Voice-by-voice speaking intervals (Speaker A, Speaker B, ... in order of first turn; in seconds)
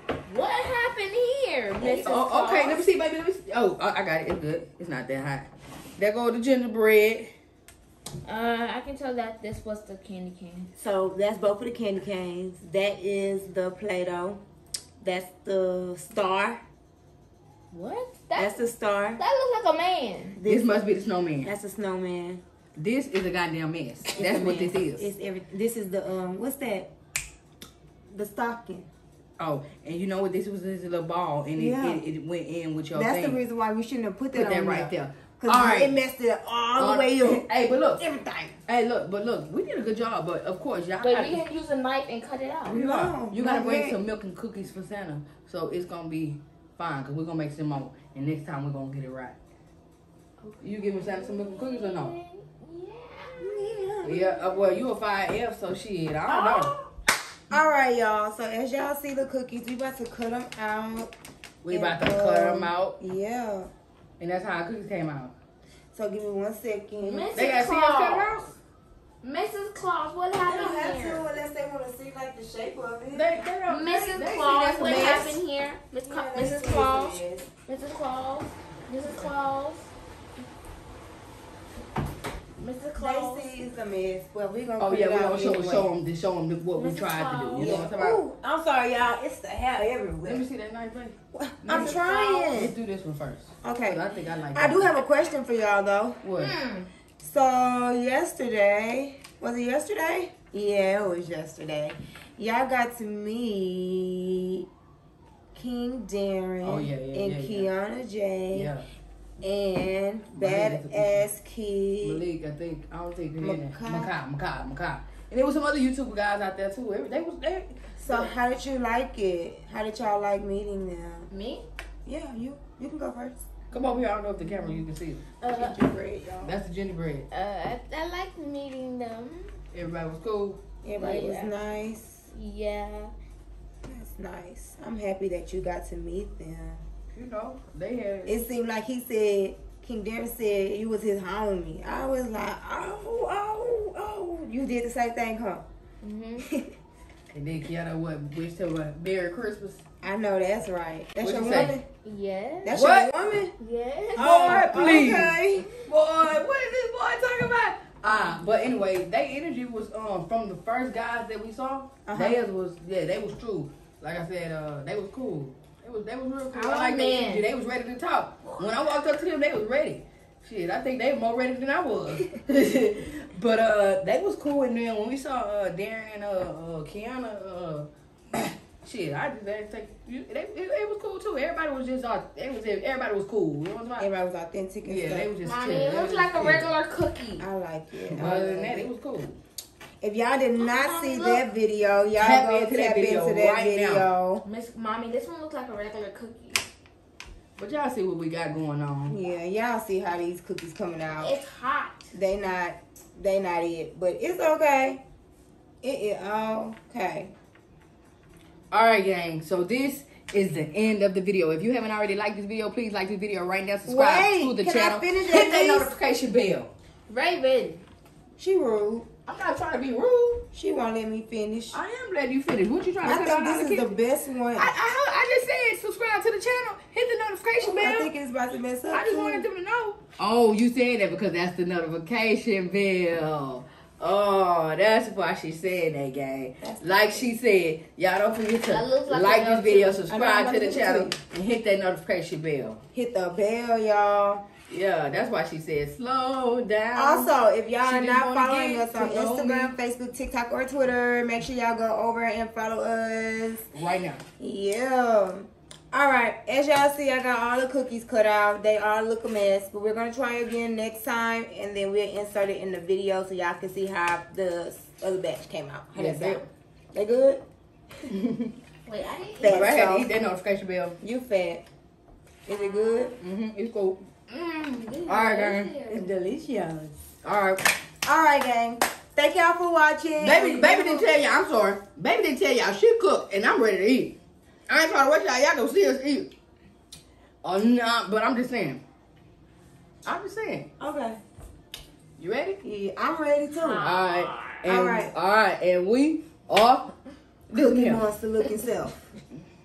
Speaker A: 0.2-2.9, 8.2-10.7, 17.7-18.6, 19.2-20.4, 41.0-42.8, 50.4-53.6, 56.3-56.9, 67.0-68.4, 69.2-71.2, 73.7-79.9, 82.6-83.5, 86.7-87.8, 91.7-92.6, 96.4-96.9, 121.3-121.7, 125.4-125.8, 127.3-129.5, 131.0-131.5, 132.3-133.1, 146.0-146.4, 152.0-152.7, 153.6-154.9, 166.5-167.5, 185.4-187.5, 190.6-191.4, 194.4-196.6, 201.2-202.1, 217.1-217.8, 238.7-240.0, 268.9-269.7, 272.5-273.1, 274.3-276.0, 293.6-294.6
Speaker B: 1.8-7.3, 20.4-21.5, 22.8-25.1, 29.4-33.4, 34.3-36.0, 36.8-38.0, 38.6-41.4, 42.7-49.4, 50.6-52.1, 54.0-56.7, 61.6-63.0, 64.2-65.3, 67.3-68.5, 73.1-75.4, 84.8-88.2, 90.2-94.9, 96.2-96.5, 106.6-107.7, 108.5-108.8, 110.3-111.2, 112.0-118.3, 123.7-125.3, 126.4-127.3, 129.7-130.6, 137.1-138.4, 147.3-149.8, 151.2-151.8, 152.7-153.1, 154.2-184.1, 184.8-186.7, 188.1-189.4, 192.2-194.1, 197.6-199.2, 208.7-216.7, 219.2-220.4, 221.7-223.9, 224.5-228.1, 228.9-242.8, 244.7-249.7, 253.7-254.2, 265.9-266.4, 268.1-268.5, 269.4-271.0, 273.2-274.0, 275.0-275.8, 277.2-277.7, 280.2-284.2, 284.7-286.3, 287.4-288.8, 290.0-290.7, 292.2-292.6, 293.8-296.9, 297.5-298.0
Speaker C: 10.8-14.4, 15.0-16.6, 18.4-19.2, 20.4-20.9, 21.4-22.4, 24.1-26.9, 28.1-28.9, 31.5-32.0, 32.9-38.6, 42.7-44.0, 53.4-54.5, 57.5-61.1, 61.7-63.7, 65.9-67.3, 70.4-73.4, 74.8-75.3, 76.0-77.5, 83.0-85.9, 87.5-90.5, 91.3-92.8, 93.6-96.2, 97.2-104.7, 105.5-108.7, 109.4-112.2, 113.4-114.1, 118.0-121.3, 122.0-123.5, 125.4-126.6, 130.8-132.3, 133.8-136.8, 138.2-145.6, 150.0-151.8, 152.6-153.5, 154.2-155.7, 162.1-162.4, 184.0-185.3, 187.4-188.9, 190.0-194.4, 199.1-201.4, 202.1-205.0, 205.8-207.3, 213.8-215.9, 218.4-219.1, 220.5-221.8, 223.0-224.7, 227.6-229.4, 236.6-237.3, 240.1-241.2, 242.9-244.4, 246.9-253.7, 254.4-267.4, 269.4-270.1, 271.0-271.6, 272.4-273.1, 275.9-276.9, 278.0-281.1, 290.8-291.2, 292.6-293.9, 294.6-295.1, 297.5-299.1